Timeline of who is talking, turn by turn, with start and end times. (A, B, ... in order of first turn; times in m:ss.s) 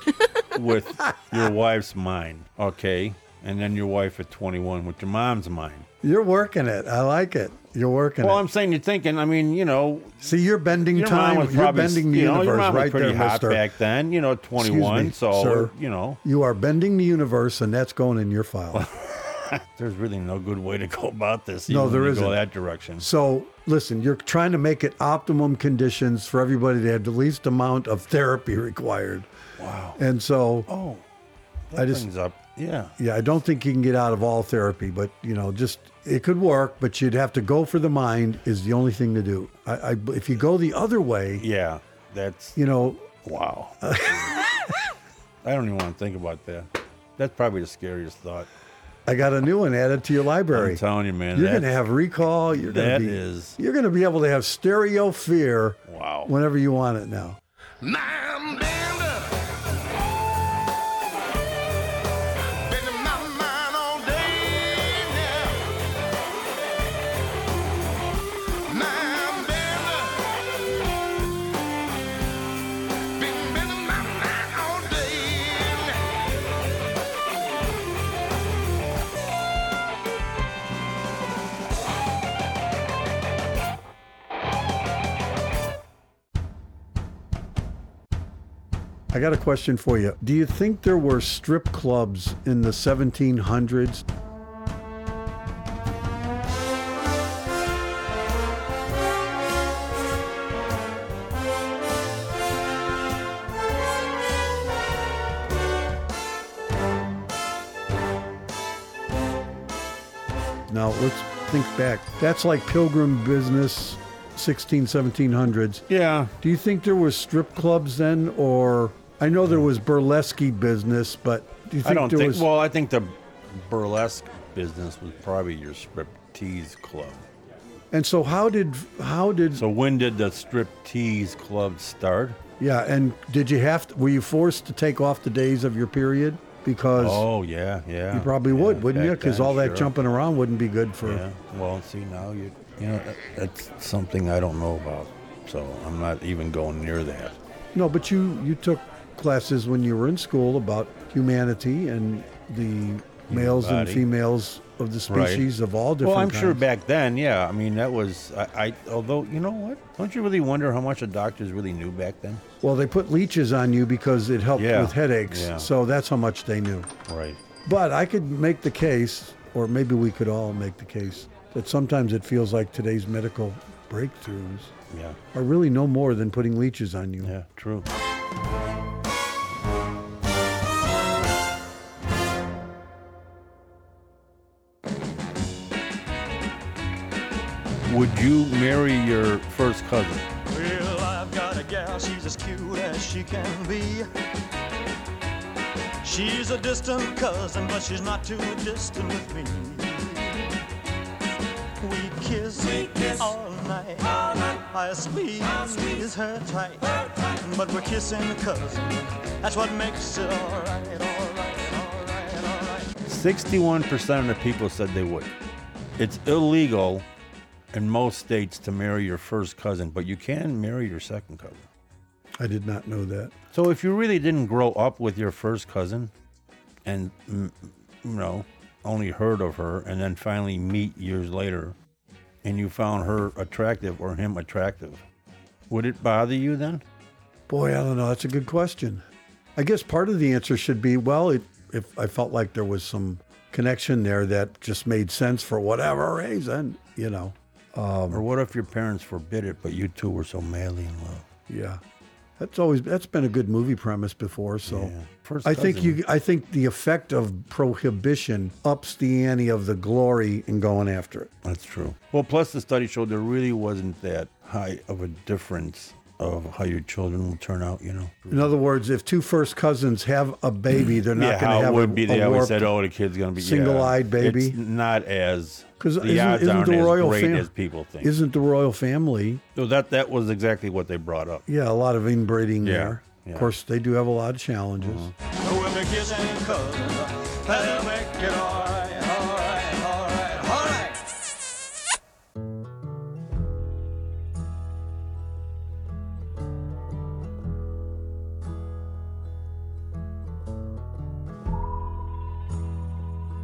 0:00.4-0:05.9 A
0:06.0-0:08.4 B
0:08.2-0:10.2 A
0:10.2-0:13.7 B
0:10.9-0:16.2 A
0:14.6-0:18.9 B
0:18.8-0:23.1 A
0:21.7-0:22.4 B
0:23.0-0:29.3 B
0:29.6-0:30.0 A
0:30.0-0:30.7 B
0:30.7-0:31.0 A
0:31.7-0:33.0 A
0:31.8-0:32.1 B
0:33.0-0:41.4 B
0:41.4-0:42.6 A
0:42.6-0:43.1 B
0:43.2-0:44.3 A
0:43.8-0:44.7 B
0:45.4-0:48.5 A
0:49.1-0:57.4 B
0:50.5-0:51.7 A
0:52.5-0:53.6 A
0:55.9-0:56.3 A
0:57.8-0:59.4 C
1:02.7-1:05.6 C
1:08.7-1:10.4 C
1:13.2-1:16.0 C
1:29.1-1:34.0 B
1:50.7-1:55.9 B
1:55.9-1:56.3 A
1:56.4-2:02.5 B
2:01.8-2:07.2 A
2:07.9-2:09.7 B
2:09.5-2:12.4 A
2:12.6-2:17.3 B
2:17.0-2:19.9 A
2:18.1-2:21.2 B
2:21.0-2:27.4 A
2:27.7-2:36.6 B
2:33.3-2:34.1 A
2:35.1-2:35.5 A
2:36.0-2:42.4 A
2:42.6-2:46.9 B
2:44.6-2:45.7 A
2:47.1-2:47.4 A
2:47.6-2:54.7 B
2:54.9-2:55.2 A
2:55.3-2:57.4 B
2:57.2-2:57.9 A
3:07.9-3:10.3 A
3:10.5-3:14.1 D
3:16.0-3:20.2 D
3:21.8-3:32.9 D
3:33.1-3:35.3 A
3:36.0-3:37.1 A
3:37.7-3:41.7 A
3:42.4-3:43.3 B
3:43.5-3:46.1 A
3:46.9-3:51.8 A
3:52.4-3:55.0 A
3:55.7-3:56.8 A
3:57.5-3:59.0 B
3:59.6-4:08.2 B
4:08.1-4:11.3 A
4:11.5-4:11.8 B
4:12.4-4:14.9 B
4:14.6-4:16.0 A
4:15.4-4:21.3 B
4:21.4-4:28.5 A
4:28.3-4:32.8 B
4:31.1-4:38.2 A
4:33.4-4:34.6 B
4:35.8-4:39.4 B
4:39.6-4:41.5 A
4:41.5-4:45.1 B
4:42.6-4:43.5 A
4:44.8-4:45.1 A
4:45.4-4:51.0 D